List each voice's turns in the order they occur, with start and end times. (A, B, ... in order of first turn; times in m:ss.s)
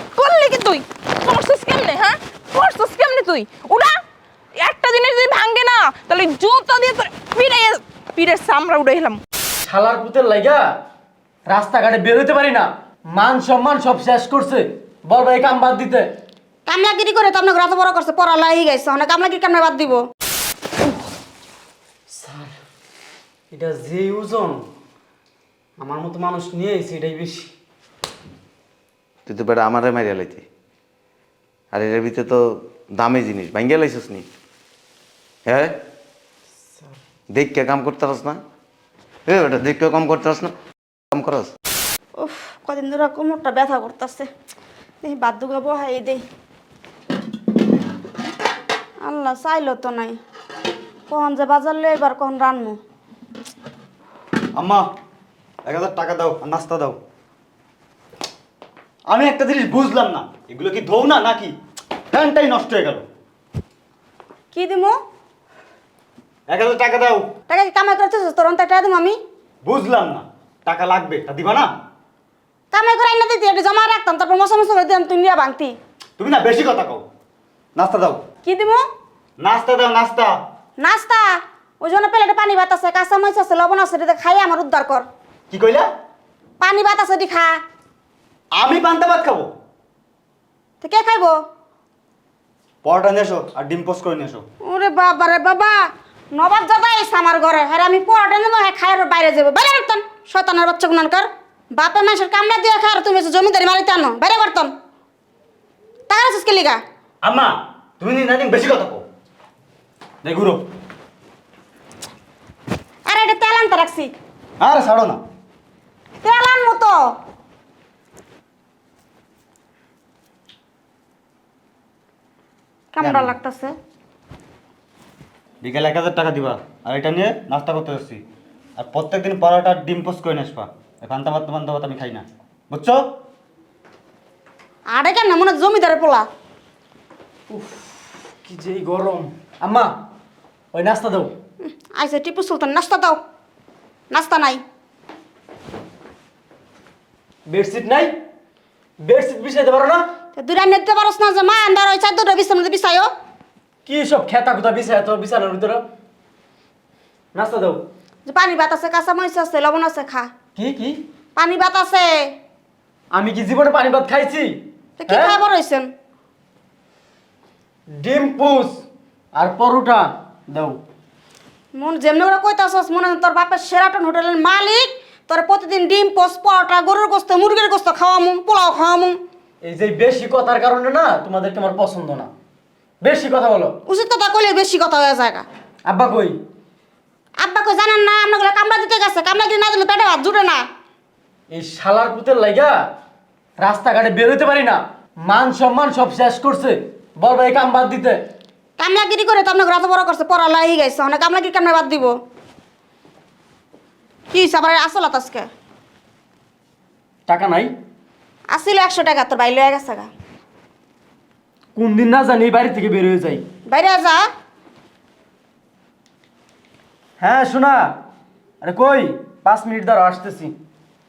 0:00.2-0:04.0 A
0:04.6-0:09.2 A
0:09.6-0:10.6 B
0:11.5-0:16.1 B
0:16.7-0:20.0 C
0:22.1-0:22.5 B
0:23.5-0:24.7 B
0:25.8-0:27.5 B
0:29.3-0:30.4 D
0:31.7-0:34.3 D
0:35.4-0:35.8 D
0:37.3-0:38.4 D
0:39.3-0:40.5 D
0:41.1-0:41.5 D
0:42.2-0:44.3 C
0:45.0-0:46.2 C
0:49.0-0:50.2 C
0:51.1-0:52.8 C
0:54.6-0:54.8 E
0:55.6-0:57.0 E
0:59.1-1:01.6 E
1:02.1-1:03.0 E
1:04.5-1:05.0 C
1:06.5-1:07.3 E
1:07.5-1:09.2 C
1:09.6-1:11.7 E
1:12.7-1:15.8 C
1:16.2-1:17.0 E
1:17.8-1:18.2 E
1:18.4-1:18.8 C
1:19.4-1:20.3 E
1:20.8-1:25.1 C
1:25.5-1:25.9 E
1:26.6-1:27.6 C
1:28.6-1:29.5 E
1:30.8-1:31.4 C
1:32.8-1:34.4 E
1:34.6-1:44.7 C
1:46.1-1:46.8 C
1:47.2-1:49.0 E
1:50.2-1:50.6 E
1:53.1-1:54.2 C
1:54.6-1:55.2 E
1:56.2-1:57.1 C
2:02.9-2:03.7 C
2:03.0-2:03.3 E
2:05.6-2:08.2 E
2:08.8-2:13.2 E
2:14.9-2:16.3 C
2:17.5-2:19.9 B
2:20.7-2:21.3 B
2:21.6-2:23.2 C
2:24.1-2:24.6 C
2:27.5-2:28.1 B
2:29.0-2:30.0 B
2:30.3-2:33.1 C
2:33.8-2:35.8 B
2:37.3-2:37.8 B
2:38.2-2:40.3 C
2:40.6-2:41.0 B
2:41.4-2:42.3 C
2:43.1-2:45.4 B
2:45.0-2:45.9 C
2:47.9-2:48.8 B
2:49.3-2:50.8 B
2:51.7-2:59.2 C
2:59.6-3:02.3 B
3:03.0-3:03.8 B
3:03.8-3:05.4 C
3:05.8-3:06.4 B
3:07.4-3:10.6 C
3:11.5-3:12.7 B
3:13.6-3:18.2 B
3:18.8-3:22.2 C
3:24.3-3:25.5 C
3:27.3-3:27.7 B
3:28.5-3:30.1 C
3:31.8-3:33.4 B
3:33.7-3:34.3 C
3:37.2-3:37.9 B
3:38.6-3:40.5 B